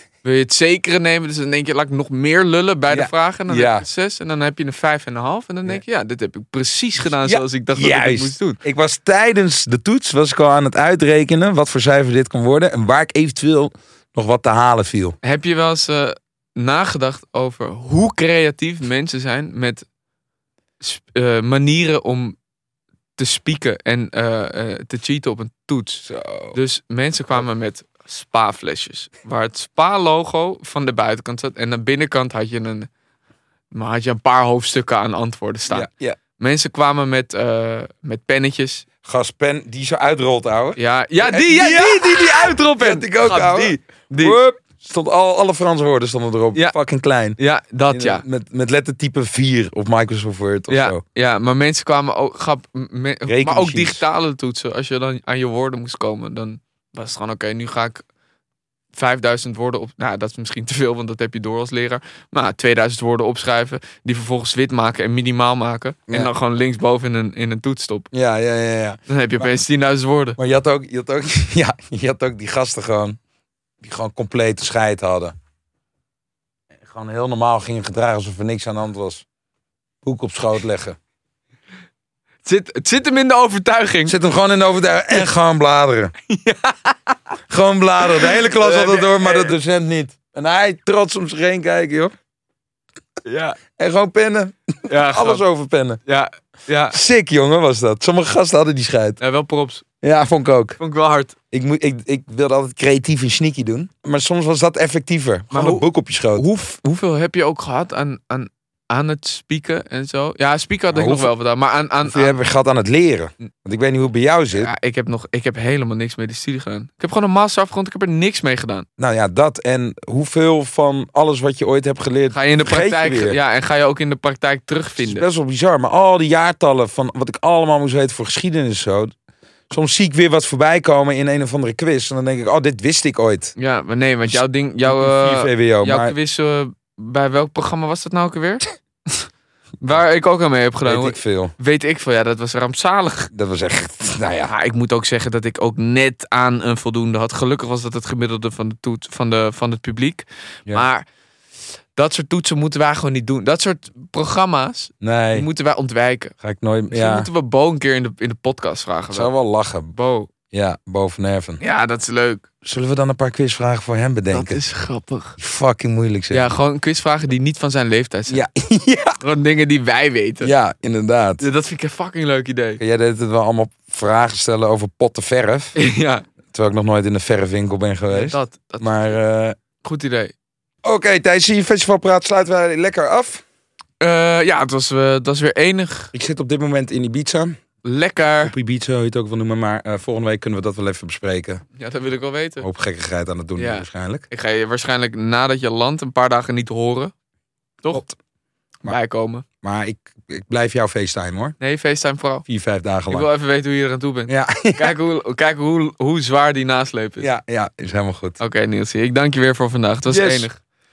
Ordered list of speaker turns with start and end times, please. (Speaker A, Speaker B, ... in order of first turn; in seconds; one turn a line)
Speaker A: 0.2-8.6
Speaker B: 2.9-3.9
Speaker B: 7.2-15.2
Speaker A: 15.2-19.9
Speaker A: 20.8-22.4
Speaker A: 23.2-32.9
Speaker B: 26.1-26.6
Speaker A: 33.7-38.9
Speaker B: 35.7-36.2
Speaker B: 39.0-47.4
Speaker A: 40.8-44.4
Speaker A: 47.4-48.2
Speaker B: 47.9-51.0
Speaker A: 50.7-58.0
Speaker B: 53.3-54.0
Speaker A: 58.9-68.1
Speaker B: 68.1-69.5
Speaker A: 69.1-70.4
Speaker B: 70.4-73.2
Speaker B: 73.8-75.3
Speaker B: 76.8-79.2
Speaker B: 80.0-81.0
Speaker A: 82.4-84.2
Speaker B: 84.1-86.1
Speaker A: 86.3-87.2
Speaker B: 87.5-92.1
Speaker A: 88.2-89.5
Speaker A: 93.2-93.6
Speaker B: 93.7-96.0
Speaker A: 94.9-95.4
Speaker A: 96.1-97.0
Speaker B: 96.9-99.2
Speaker A: 99.2-99.8
Speaker B: 100.0-100.8
Speaker A: 100.8-101.3
Speaker B: 101.5-106.5
Speaker A: 105.5-112.4
Speaker B: 110.9-111.3
Speaker B: 112.0-114.7
Speaker A: 114.5-118.9
Speaker B: 119.0-123.4
Speaker A: 122.3-125.2
Speaker B: 125.0-129.1
Speaker B: 129.7-133.6
Speaker A: 133.6-139.3
Speaker B: 134.3-136.2
Speaker A: 139.8-143.3
Speaker B: 140.8-141.5
Speaker B: 143.3-144.5
Speaker A: 144.5-151.1
Speaker A: 152.0-156.3
Speaker B: 155.0-155.5
Speaker B: 156.4-157.3
Speaker A: 156.9-159.3
Speaker B: 159.1-159.9
Speaker A: 159.9-160.3
Speaker B: 160.5-161.6
Speaker A: 161.6-162.5
Speaker B: 162.6-164.6
Speaker A: 164.3-165.4
Speaker B: 165.4-166.5
Speaker A: 166.3-168.4
Speaker B: 168.3-169.2
Speaker A: 169.2-170.5
Speaker B: 170.4-171.4
Speaker A: 171.4-172.8
Speaker B: 172.8-175.8
Speaker A: 175.8-176.2
Speaker B: 176.5-179.6
Speaker A: 178.1-179.2
Speaker A: 179.8-180.3
Speaker B: 180.8-183.4
Speaker A: 184.0-186.1
Speaker B: 186.1-187.6
Speaker A: 187.8-188.5
Speaker B: 188.4-191.6
Speaker A: 191.8-192.7
Speaker B: 192.6-194.2
Speaker A: 193.6-197.1
Speaker B: 197.9-198.2
Speaker A: 198.8-199.4
Speaker B: 199.6-201.6
Speaker A: 201.6-202.4
Speaker B: 202.5-203.3
Speaker A: 203.1-207.3
Speaker B: 204.3-204.9
Speaker B: 207.2-208.4
Speaker A: 208.4-210.6
Speaker B: 210.1-210.5